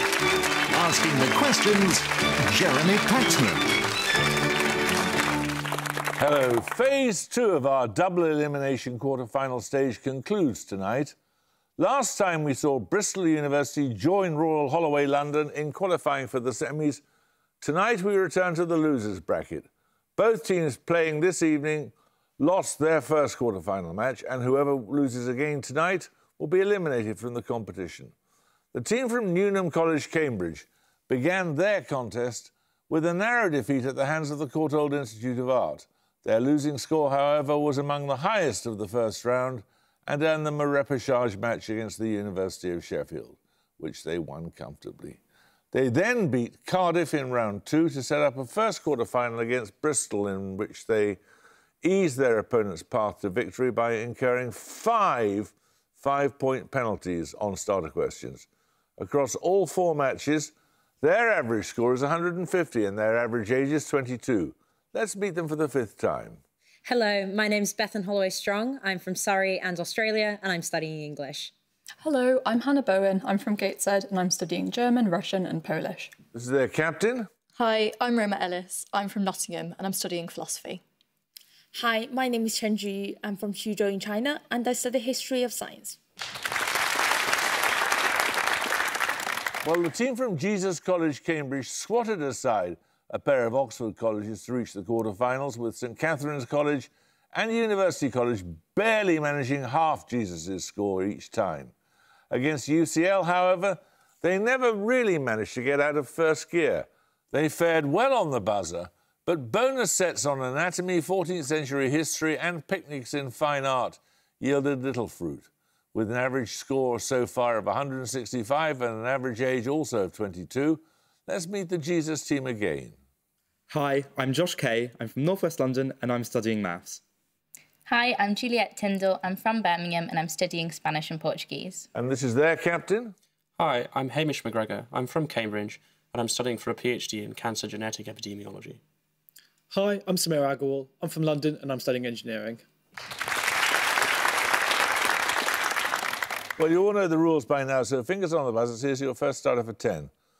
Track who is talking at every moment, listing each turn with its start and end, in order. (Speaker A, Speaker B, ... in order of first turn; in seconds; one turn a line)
Speaker A: 0.7-3.8
Speaker B: 6.2-11.2
Speaker B: 11.8-17.0
Speaker B: 17.6-28.1
Speaker B: 28.7-45.2
Speaker B: 45.7-51.2
Speaker B: 51.8-58.5
Speaker B: 59.0-66.4
Speaker C: 66.8-71.5
Speaker D: 72.0-76.1
Speaker B: 76.3-77.3
Speaker E: 77.6-80.8
Speaker F: 81.7-86.0
Speaker B: 89.6-101.7
Speaker B: 102.3-123.0
Speaker G: 123.7-127.0
Speaker H: 127.9-131.9
Speaker B: 131.9-133.2
Speaker I: 133.6-138.8
Speaker J: 139.7-142.6
Speaker B: 146.6-150.1